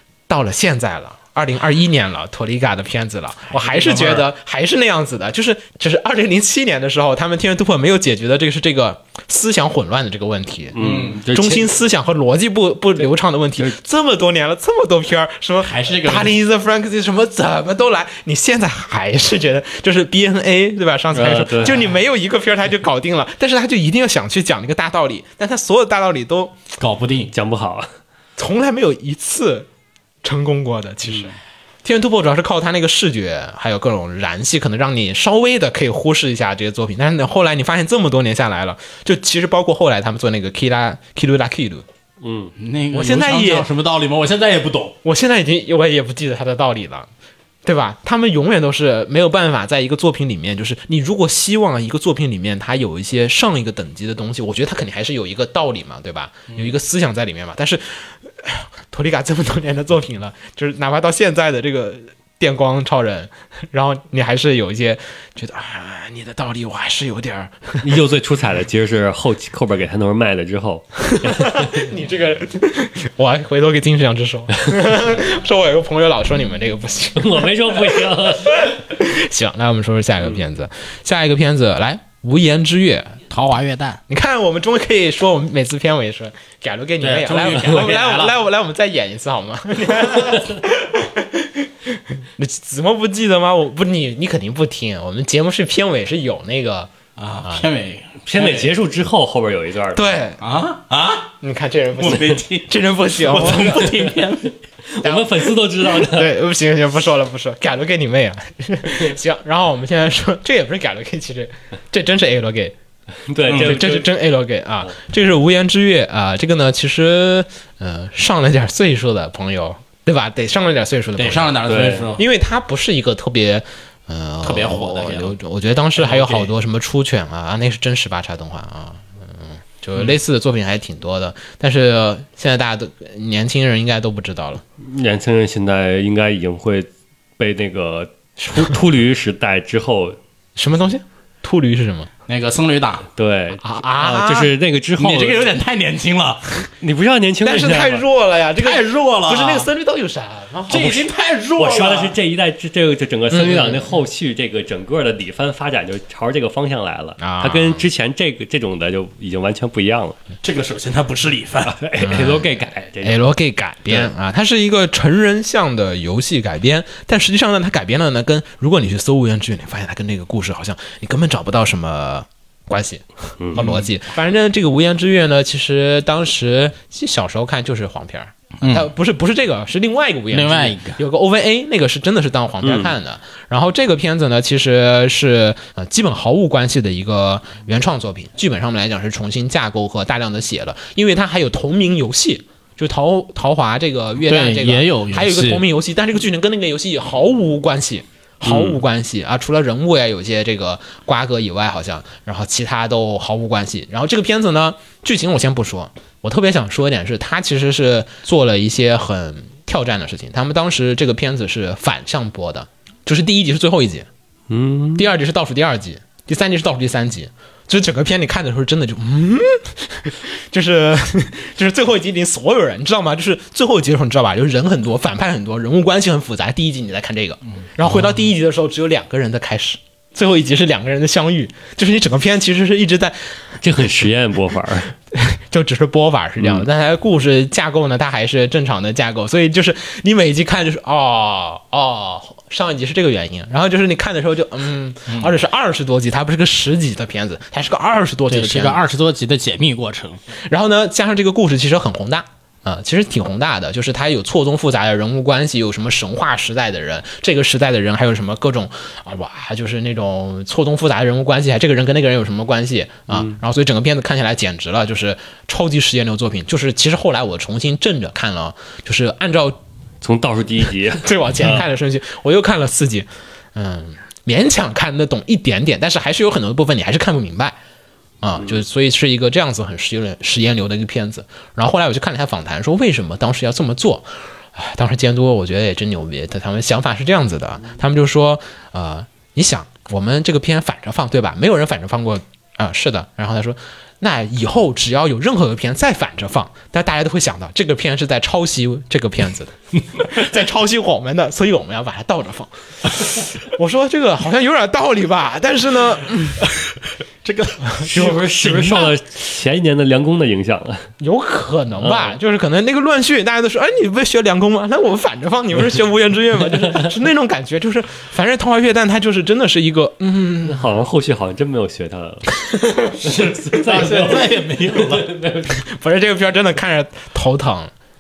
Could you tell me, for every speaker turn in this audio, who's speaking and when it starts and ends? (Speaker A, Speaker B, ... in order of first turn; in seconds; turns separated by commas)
Speaker A: 0.3-26.6, Speaker B: 3.5-4.3, Speaker C: 10.8-11.7, Speaker B: 10.8-11.2, Speaker B: 15.6-16.4, Speaker C: 21.1-21.8, Speaker B: 26.8-27.3, Speaker C: 27.3-27.9, Speaker A: 28.4-29.7, Speaker A: 30.2-41.8, Speaker C: 42.2-42.5, Speaker B: 42.6-45.0, Speaker A: 42.9-43.7, Speaker A: 45.0-47.1, Speaker A: 47.6-67.9, Speaker C: 67.8-71.9, Speaker A: 71.1-83.2, Speaker C: 77.2-78.7, Speaker B: 83.3-84.0, Speaker A: 84.1-97.7, Speaker B: 87.0-88.4, Speaker B: 97.2-98.7, Speaker C: 98.3-100.1, Speaker A: 100.0-100.4, Speaker B: 100.4-101.3, Speaker A: 101.4-103.9, Speaker B: 102.0-104.5, Speaker C: 103.6-104.1, Speaker C: 104.9-106.3, Speaker A: 105.0-112.8, Speaker C: 113.3-114.1, Speaker B: 113.5-113.8, Speaker A: 113.5-121.6, Speaker B: 121.2-122.2, Speaker C: 121.7-122.1, Speaker A: 122.2-134.6, Speaker B: 124.4-125.4, Speaker B: 126.0-126.5, Speaker C: 134.8-136.9, Speaker C: 137.4-140.2, Speaker A: 140.6-142.1, Speaker B: 142.3-143.1, Speaker C: 143.2-145.5, Speaker A: 143.6-144.5, Speaker B: 145.0-146.7, Speaker C: 146.7-148.0, Speaker A: 147.4-151.1, Speaker B: 148.6-149.7, Speaker B: 150.7-152.2, Speaker C: 151.6-160.2, Speaker A: 153.3-153.9, Speaker A: 157.2-157.9, Speaker B: 160.4-161.8, Speaker C: 161.7-163.2, Speaker A: 162.0-214.1, Speaker B: 173.6-173.9, Speaker B: 178.6-178.9, Speaker B: 180.3-181.0, Speaker C: 182.6-182.9, Speaker B: 194.2-195.7, Speaker C: 198.4-198.8, Speaker C: 214.5-215.1, Speaker A: 214.9-233.4, Speaker C: 233.6-234.9, Speaker A: 235.1-248.8, Speaker C: 236.4-236.7, Speaker B: 245.1-245.3, Speaker B: 248.3-250.2, Speaker A: 250.5-269.6, Speaker C: 270.0-271.7, Speaker A: 271.0-277.6, Speaker A: 278.2-306.4, Speaker B: 307.2-307.7, Speaker A: 307.8-308.9, Speaker C: 307.8-310.9, Speaker A: 311.0-320.7, Speaker C: 311.8-312.2, Speaker C: 316.6-316.9, Speaker C: 320.4-322.4, Speaker A: 322.6-322.9, Speaker B: 323.0-325.1, Speaker C: 323.1-325.6, Speaker A: 323.5-324.0, Speaker A: 325.5-327.7